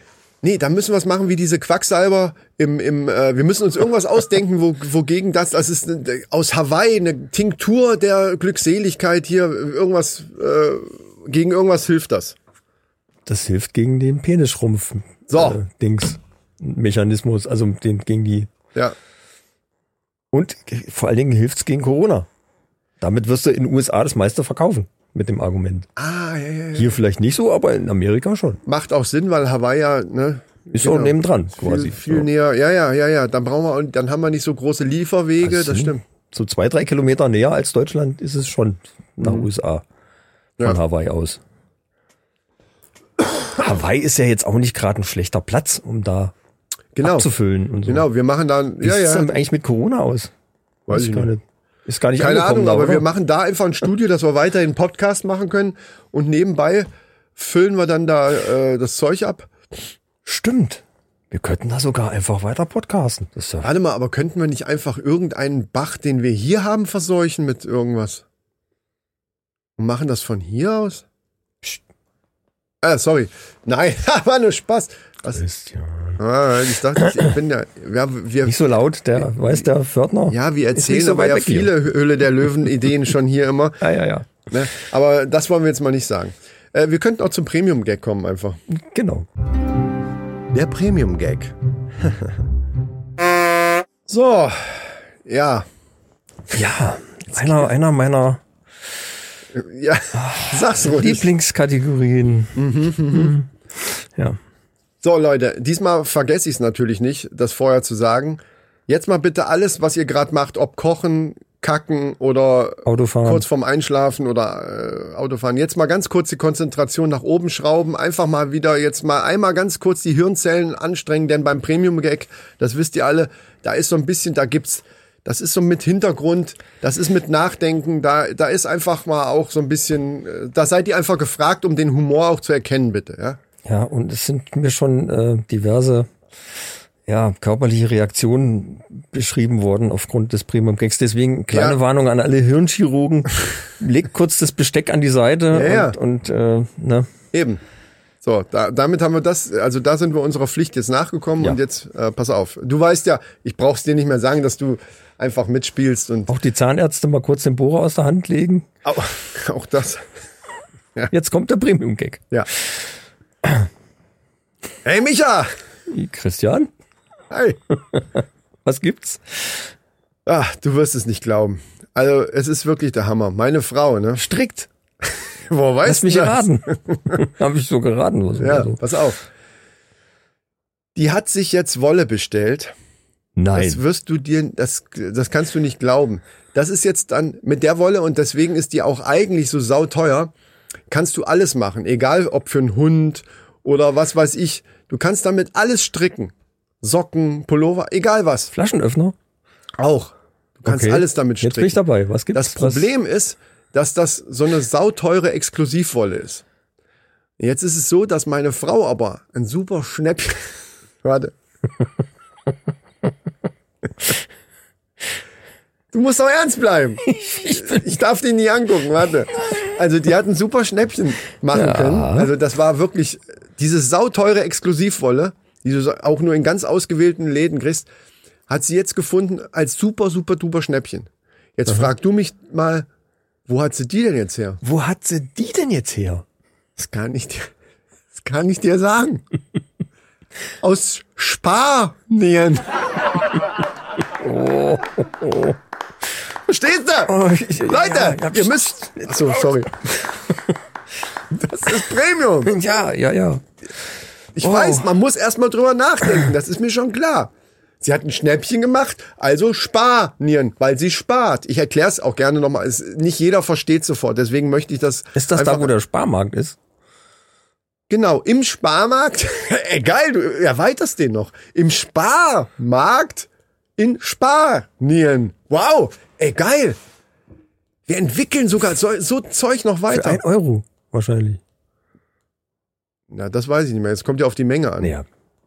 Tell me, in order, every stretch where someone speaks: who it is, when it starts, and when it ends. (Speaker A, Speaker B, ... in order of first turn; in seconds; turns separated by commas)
Speaker A: 0.4-12.4, Speaker B: 13.2-18.5, Speaker A: 15.3-15.6, Speaker B: 20.3-22.3, Speaker B: 23.0-25.9, Speaker A: 26.0-27.0, Speaker B: 26.7-28.6, Speaker A: 28.6-36.0, Speaker B: 30.7-32.3, Speaker B: 35.4-39.8, Speaker A: 39.2-39.5, Speaker B: 40.6-41.4, Speaker B: 43.5-46.3, Speaker A: 46.9-47.3, Speaker B: 47.0-48.1, Speaker A: 47.9-49.3, Speaker B: 48.8-50.3, Speaker A: 50.9-51.3, Speaker B: 50.9-53.0, Speaker A: 52.2-59.5, Speaker B: 60.2-63.7, Speaker A: 63.6-68.2, Speaker A: 69.8-71.0, Speaker A: 72.8-75.4, Speaker B: 75.3-76.2, Speaker A: 76.2-78.6, Speaker B: 77.0-77.3, Speaker B: 78.4-81.7, Speaker A: 80.3-83.8, Speaker B: 83.8-84.3, Speaker A: 84.5-88.6, Speaker B: 88.7-89.3, Speaker A: 90.5-92.3, Speaker A: 94.1-95.7, Speaker B: 96.5-98.4, Speaker A: 97.3-97.7, Speaker A: 99.5-101.3, Speaker B: 100.1-104.4, Speaker A: 102.5-103.3, Speaker A: 105.0-133.4, Speaker B: 112.8-113.4, Speaker B: 133.6-136.1, Speaker B: 137.1-147.1, Speaker A: 141.5-141.8, Speaker A: 145.5-146.0, Speaker A: 147.3-147.6, Speaker A: 148.2-156.3, Speaker B: 156.3-158.7, Speaker A: 158.8-160.0, Speaker B: 161.1-162.2, Speaker A: 164.8-165.5, Speaker B: 165.9-166.7, Speaker A: 167.3-167.6, Speaker B: 167.9-169.7, Speaker A: 170.2-174.2, Speaker B: 174.2-174.7, Speaker A: 175.5-177.2, Speaker B: 175.8-178.8, Speaker A: 178.4-179.2, Speaker A: 180.9-182.7, Speaker B: 183.4-183.8, Speaker A: 183.5-190.3, Speaker A: 190.9-198.5, Speaker B: 198.5-199.1, Speaker A: 199.8-201.8, Speaker B: 200.7-202.9, Speaker A: 202.3-206.4, Speaker A: 207.4-211.3, Speaker A: 215.9-227.9, Speaker B: 217.0-217.8, Speaker B: 221.5-222.3, Speaker A: 228.5-232.9, Speaker A: 233.5-234.6, Speaker B: 234.6-236.2, Speaker A: 236.8-237.5, Speaker A: 238.1-239.2, Speaker A: 240.6-242.7, Speaker B: 244.2-245.6, Speaker A: 246.5-249.7, Speaker B: 247.1-249.5, Speaker A: 251.3-252.6, Speaker B: 252.4-253.4, Speaker A: 254.3-265.7, Speaker B: 254.4-254.9, Speaker B: 265.1-266.6, Speaker A: 267.9-276.8, Speaker A: 277.9-280.2, Speaker B: 279.9-281.4, Speaker A: 283.1-284.9, Speaker B: 284.8-285.1